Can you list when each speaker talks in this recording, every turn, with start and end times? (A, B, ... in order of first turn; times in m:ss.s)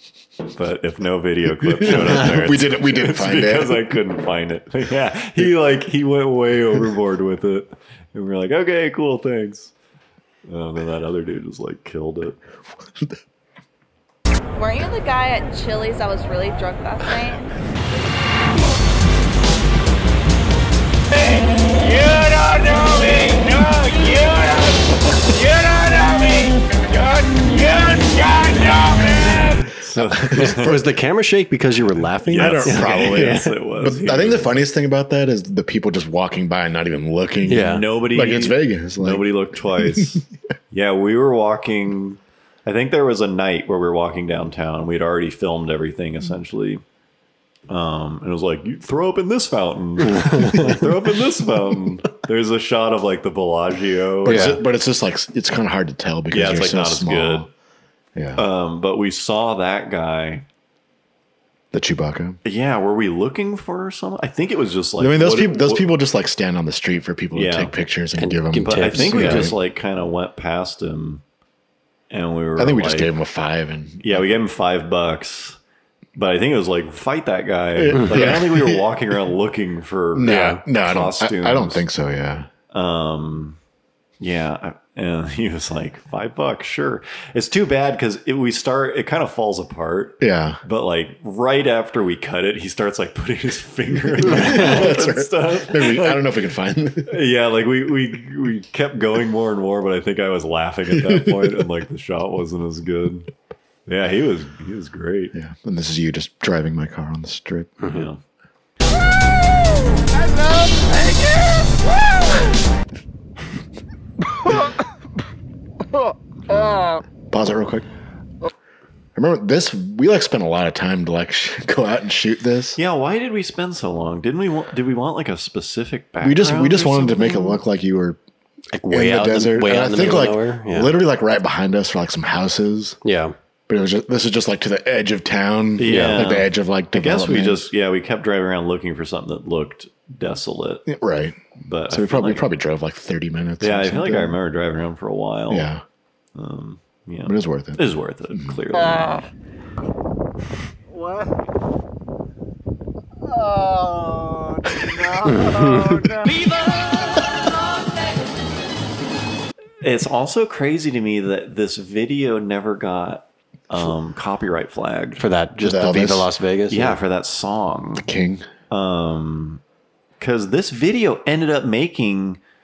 0:00.5-0:09.7 A
0:01.7-0:03.8 B
0:10.4-0:12.4 A
0:14.6-0:17.4 C
0:21.1-0:29.7 D
0:29.7-0:30.8 A
0:30.0-0:30.7 B
0:30.3-0:33.5 E
0:32.2-0:40.2 B
0:32.3-0:34.5 A
0:37.5-0:37.8 E
0:37.5-0:46.8 A
0:47.7-0:54.6 A
0:50.2-0:50.8 E
0:54.2-0:57.5 B
0:54.2-0:54.6 E
0:56.3-0:57.5 A
0:58.2-0:58.4 B
0:58.3-1:00.4 A
1:01.7-1:02.4 B
1:02.4-1:06.0 A
1:05.0-1:09.6 B
1:07.3-1:07.7 A
1:08.2-1:09.5 E
1:08.6-1:11.2 A
1:12.1-1:13.1 A
1:12.6-1:14.3 B
1:14.0-1:15.6 A
1:16.2-1:21.8 A
1:17.8-1:19.0 B
1:17.9-1:18.2 E
1:20.1-1:22.5 B
1:20.2-1:20.6 E
1:22.7-1:23.6 A
1:24.2-1:36.3 A
1:30.2-1:30.6 B
1:34.2-1:37.1 B
1:37.0-1:43.3 A
1:40.9-1:41.6 B
1:43.8-1:45.3 A
1:45.3-1:47.8 B
1:47.8-1:48.1 E
1:47.9-1:48.2 A
1:50.2-1:52.5 D
1:57.3-1:57.9 B
1:59.1-2:02.8 B
2:02.8-2:07.6 A
2:06.2-2:08.2 B
2:08.7-2:10.9 E
2:08.9-2:13.0 B
2:13.0-2:13.3 E
2:13.7-2:17.7 B
2:15.8-2:20.9 A
2:15.8-2:16.3 E
2:20.9-2:21.4 B
2:21.6-2:22.5 A
2:21.9-2:24.4 B
2:23.6-2:25.7 A
2:25.5-2:25.8 B
2:26.3-2:29.2 A
2:27.2-2:28.6 B
2:34.6-2:37.3 D
2:35.2-2:36.0 E
2:39.8-2:45.2 A
2:45.2-2:47.0 E
2:45.6-2:46.3 B
2:46.7-2:48.1 A
2:48.0-2:48.4 B
2:48.7-2:49.6 A
2:50.2-2:52.4 A